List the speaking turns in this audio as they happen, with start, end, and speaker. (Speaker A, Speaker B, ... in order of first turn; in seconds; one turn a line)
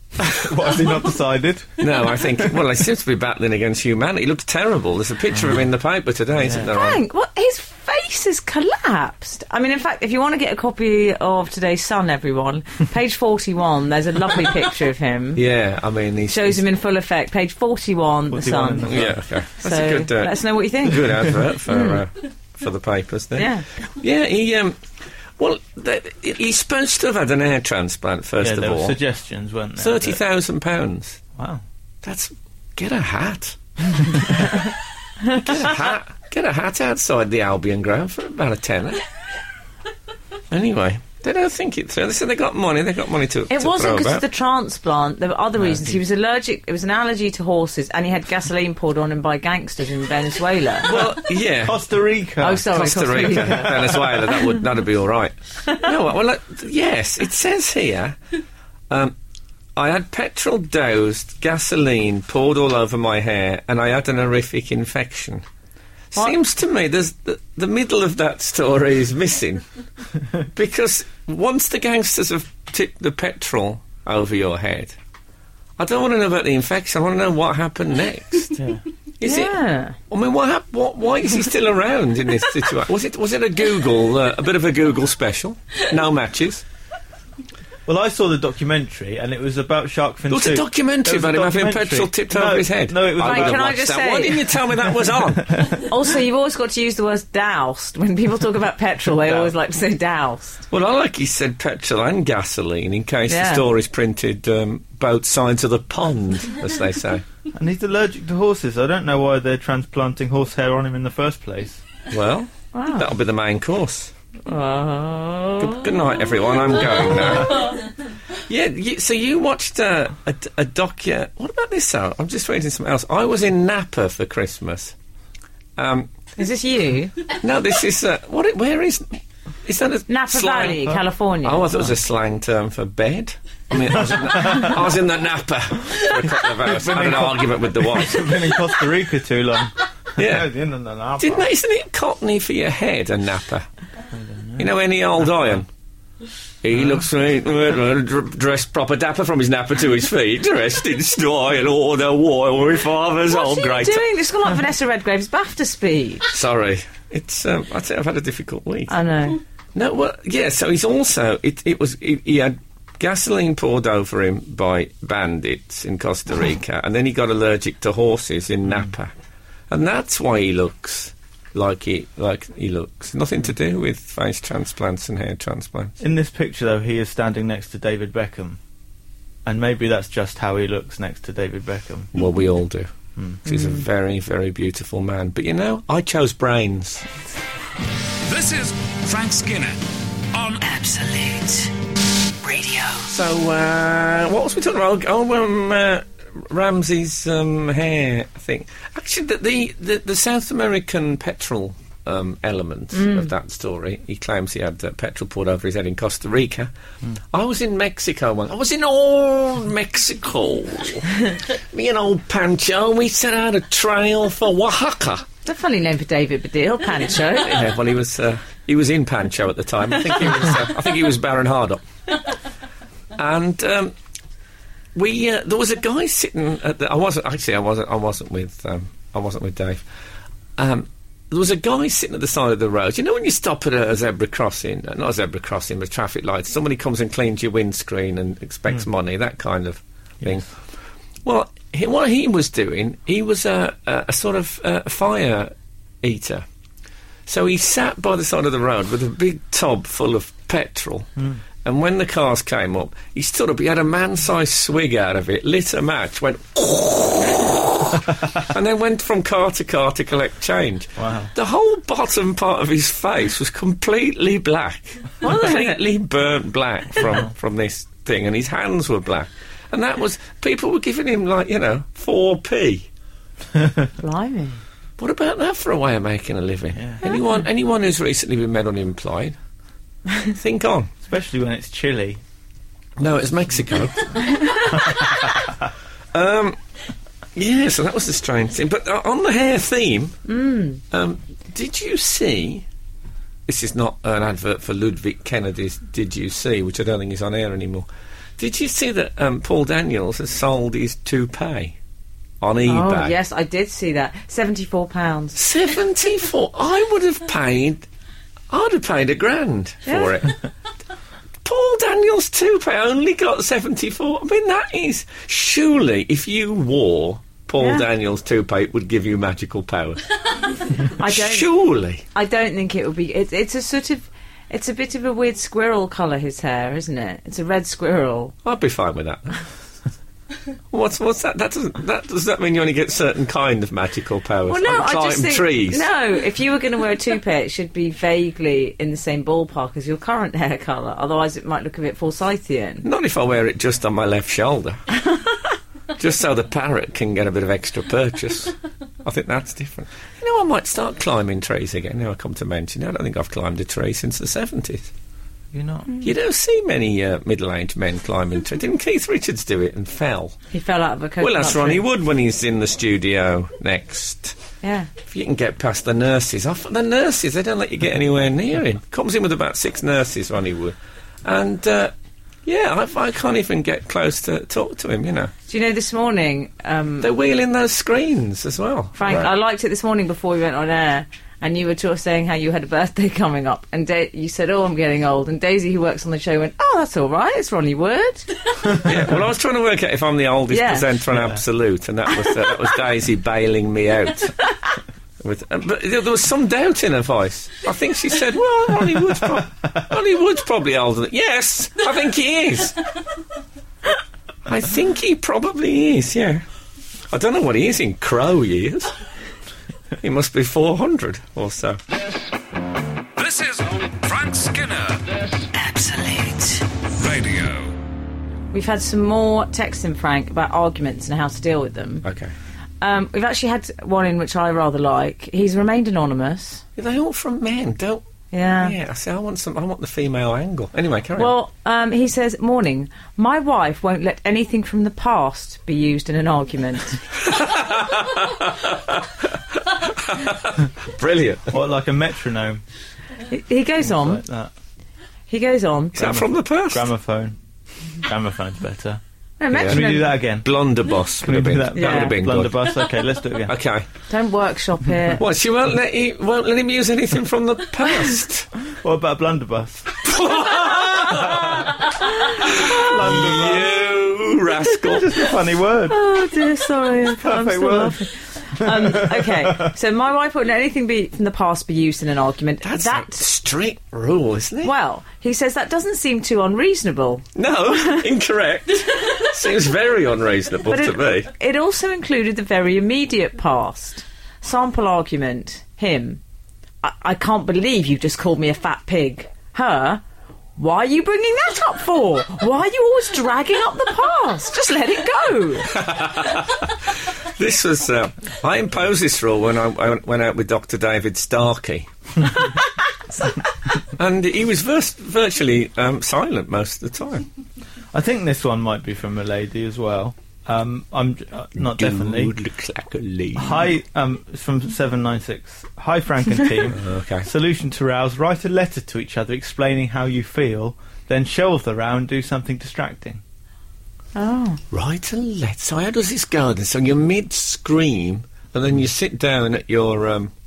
Speaker A: 0.2-2.5
Speaker B: 1.8-7.0
Speaker A: 6.4-6.7
Speaker C: 6.7-15.4
Speaker B: 15.3-16.6
Speaker C: 16.3-19.0
Speaker A: 18.3-19.1
Speaker B: 18.9-24.8
Speaker C: 19.6-22.0
Speaker C: 23.4-23.6
Speaker B: 25.4-29.0
Speaker A: 28.4-30.2
Speaker B: 29.8-31.2
Speaker A: 31.4-31.6
Speaker B: 32.0-34.7
Speaker B: 35.3-39.0
Speaker B: 40.5-44.2
Speaker C: 43.5-51.0
Speaker A: 45.6-45.9
Speaker B: 50.8-51.8
Speaker A: 51.5-52.6
Speaker C: 52.4-54.4
Speaker B: 52.6-58.2
Speaker A: 53.2-53.7
Speaker B: 58.9-59.1
Speaker B: 59.8-65.4
Speaker B: 66.1-69.6
Speaker B: 70.5-75.0
Speaker B: 75.8-78.6
Speaker A: 78.6-78.8
Speaker B: 79.2-79.6
Speaker C: 79.2-80.0
Speaker B: 80.1-86.6
Speaker A: 87.8-93.7
Speaker B: 90.3-95.7
Speaker C: 93.2-94.5
Speaker C: 95.7-100.6
Speaker A: 99.2-99.5
Speaker B: 100.7-107.2
Speaker C: 103.3-103.7
Speaker A: 107.5-111.8
Speaker B: 112.1-114.1
Speaker C: 112.7-113.0
Speaker C: 114.5-116.0
Speaker B: 115.6-117.8
Speaker B: 118.3-124.9
Speaker B: 125.8-126.1
Speaker C: 126.4-127.1
Speaker B: 127.3-138.5
Speaker C: 130.1-131.8
Speaker A: 134.1-134.7
Speaker A: 136.7-141.5
Speaker B: 140.2-140.5
Speaker B: 141.2-143.7
Speaker A: 144.1-144.7
Speaker B: 144.6-145.7
Speaker B: 146.6-154.1
Speaker A: 146.7-147.0
Speaker C: 153.3-156.2
Speaker B: 156.3-158.9
Speaker C: 158.9-159.4
Speaker B: 159.7-169.1
Speaker B: 169.7-176.0
Speaker A: 176.0-178.6
Speaker A: 179.4-182.1
Speaker B: 182.1-182.9
Speaker B: 183.4-187.1
Speaker C: 183.5-183.8
Speaker D: 188.2-189.8
Speaker D: 190.3-190.6
Speaker E: 190.6-191.7
Speaker E: 192.4-193.1
Speaker B: 193.1-206.7
Speaker C: 202.9-203.3
Speaker B: 207.3-215.3
Speaker C: 215.4-217.6
Speaker B: 217.3-221.8
Speaker B: 223.2-223.9
Speaker B: 224.9-229.8
Speaker B: 230.6-240.4
Speaker B: 241.2-246.4
Speaker B: 247.2-251.1
Speaker A: 251.2-251.4
Speaker B: 251.6-272.9
Speaker A: 261.0-261.3
Speaker C: 265.2-265.8
Speaker A: 273.6-273.8
Speaker C: 274.0-274.6
Speaker B: 275.0-279.4
Speaker A: 276.7-277.0
Speaker B: 280.2-280.9
Speaker A: 281.0-282.2
Speaker B: 283.0-285.3
Speaker A: 285.0-285.5
Speaker B: 286.1-286.6
Speaker B: 287.4-290.1
Speaker C: 290.3-290.8
Speaker B: 290.9-292.6
Speaker B: 293.5-297.9
Speaker B: 298.4-301.7
Speaker B: 302.4-303.1
Speaker C: 302.6-305.4
Speaker B: 305.3-307.8
Speaker B: 308.5-310.4
Speaker C: 309.8-310.2
Speaker B: 311.4-320.0
Speaker C: 317.6-317.9
Speaker B: 320.8-322.0
Speaker C: 321.0-321.5
Speaker C: 322.1-328.3
Speaker B: 328.4-329.4
Speaker B: 330.7-335.8
Speaker C: 334.5-342.9
Speaker B: 342.8-344.8
Speaker B: 346.0-354.9
Speaker A: 355.5-356.0
Speaker B: 356.0-360.4
Speaker C: 360.5-361.8
Speaker B: 361.2-364.4
Speaker C: 364.6-364.9
Speaker B: 365.0-371.9
Speaker B: 372.4-375.3
Speaker C: 375.5-377.1
Speaker B: 377.0-379.3
Speaker C: 379.0-388.8
Speaker B: 388.8-394.3
Speaker C: 390.5-390.9
Speaker A: 391.1-391.4
Speaker B: 395.2-402.9
Speaker B: 404.4-406.4
Speaker B: 407.1-408.9
Speaker B: 410.0-411.8
Speaker D: 413.1-415.5
Speaker E: 415.5-416.7
Speaker D: 417.0-417.7
Speaker C: 418.5-422.0
Speaker B: 422.0-422.3
Speaker C: 422.8-426.6
Speaker B: 426.8-428.0
Speaker C: 428.3-428.8
Speaker B: 428.6-431.3
Speaker C: 431.2-437.0
Speaker B: 437.2-441.6
Speaker A: 441.5-442.6
Speaker C: 443.3-444.2
Speaker A: 443.8-444.5
Speaker C: 445.3-446.0
Speaker B: 445.9-446.9
Speaker A: 445.9-447.4
Speaker A: 448.0-449.0
Speaker C: 449.4-450.2
Speaker B: 449.5-452.7
Speaker A: 449.5-450.5
Speaker A: 451.2-453.5
Speaker C: 451.7-452.2
Speaker B: 453.4-453.9
Speaker C: 454.1-455.2
Speaker B: 455.2-458.5
Speaker A: 458.7-460.0
Speaker B: 460.0-465.3
Speaker A: 461.0-463.7
Speaker A: 464.8-466.0
Speaker C: 465.9-473.2
Speaker A: 467.2-469.7
Speaker B: 472.6-474.7
Speaker C: 474.6-478.1
Speaker B: 477.3-481.3
Speaker C: 480.7-486.2
Speaker C: 486.8-490.0
Speaker C: 490.6-495.7
Speaker B: 495.7-502.5
Speaker B: 503.8-507.3
Speaker A: 507.9-512.3
Speaker B: 511.6-513.7
Speaker A: 513.3-523.2
Speaker B: 516.7-517.3
Speaker C: 524.1-524.6
Speaker B: 524.7-530.3